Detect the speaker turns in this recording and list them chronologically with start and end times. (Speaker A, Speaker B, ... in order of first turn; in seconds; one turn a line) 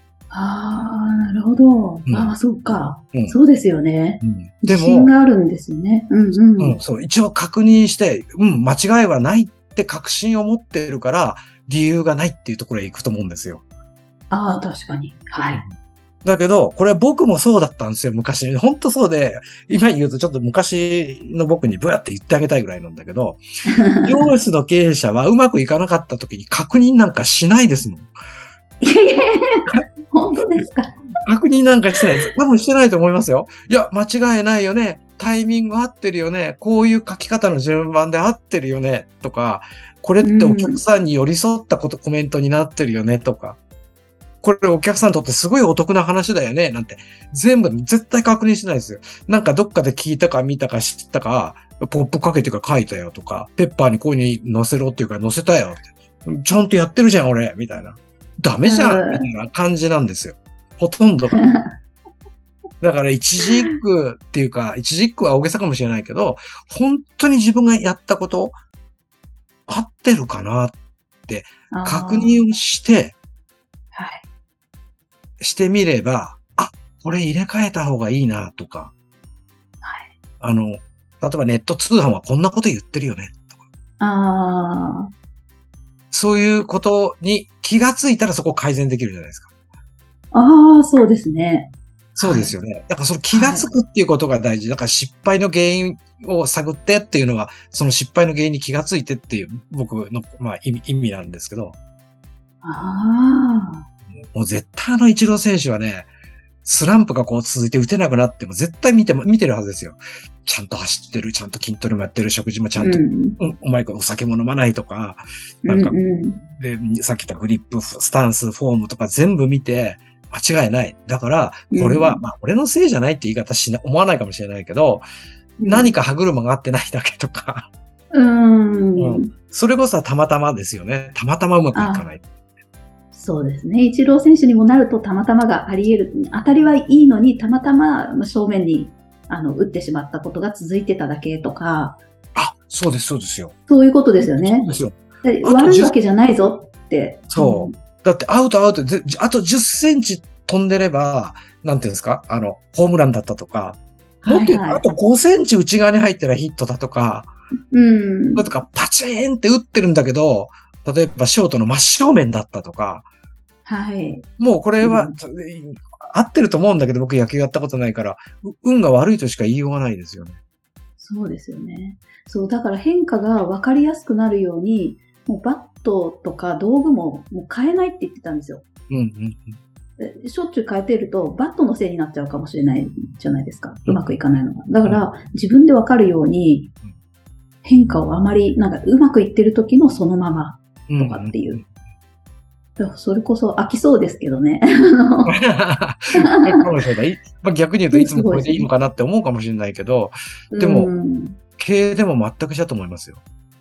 Speaker A: 0.3-6.8
Speaker B: 2.1-2.4
Speaker B: 4.2-5.1
Speaker B: 6.6-13.6
Speaker A: 14.3-15.7
Speaker B: 16.2-23.4
Speaker A: 23.7-24.3
Speaker B: 24.0-28.1
Speaker A: 28.8-31.0
Speaker B: 31.2-43.6
Speaker A: 40.2-40.8
Speaker B: 44.4-61.4
Speaker A: 58.6-59.3
Speaker A: 61.3-61.7
Speaker B: 62.8-68.6
Speaker B: 69.7-70.8
Speaker B: 71.3-73.2
Speaker A: 71.7-72.4
Speaker A: 73.9-74.2
Speaker B: 75.4-78.9
Speaker A: 79.8-80.1
Speaker B: 80.4-83.6
Speaker A: 84.0-85.1
Speaker B: 86.1-89.5
Speaker A: 90.3-92.5
Speaker B: 92.2-101.8
Speaker A: 93.3-93.7
Speaker A: 102.6-103.9
Speaker B: 104.2-106.1
Speaker B: 106.7-116.0
Speaker A: 112.8-113.4
Speaker A: 115.7-116.4
Speaker B: 116.6-125.0
Speaker A: 121.7-122.2
Speaker A: 125.6-125.9
Speaker B: 125.7-127.7
Speaker A: 128.1-129.3
Speaker B: 129.0-132.2
Speaker A: 131.7-132.1
Speaker A: 133.1-142.0
Speaker B: 142.3-143.6
Speaker A: 143.7-144.7
Speaker B: 144.2-145.9
Speaker A: 145.2-147.8
Speaker B: 147.3-157.3
Speaker A: 154.2-154.9
Speaker A: 157.7-158.5
Speaker B: 158.4-163.1
Speaker A: 163.7-164.3
Speaker B: 164.4-170.4
Speaker A: 164.8-165.2
Speaker A: 171.0-178.7
Speaker B: 178.9-179.6
Speaker A: 180.0-186.7
Speaker A: 187.6-191.6
Speaker B: 190.9-191.7
Speaker A: 192.8-195.4
Speaker B: 195.3-200.9
Speaker A: 196.2-196.7
Speaker A: 197.9-198.7
Speaker A: 200.5-201.4
Speaker B: 201.6-203.2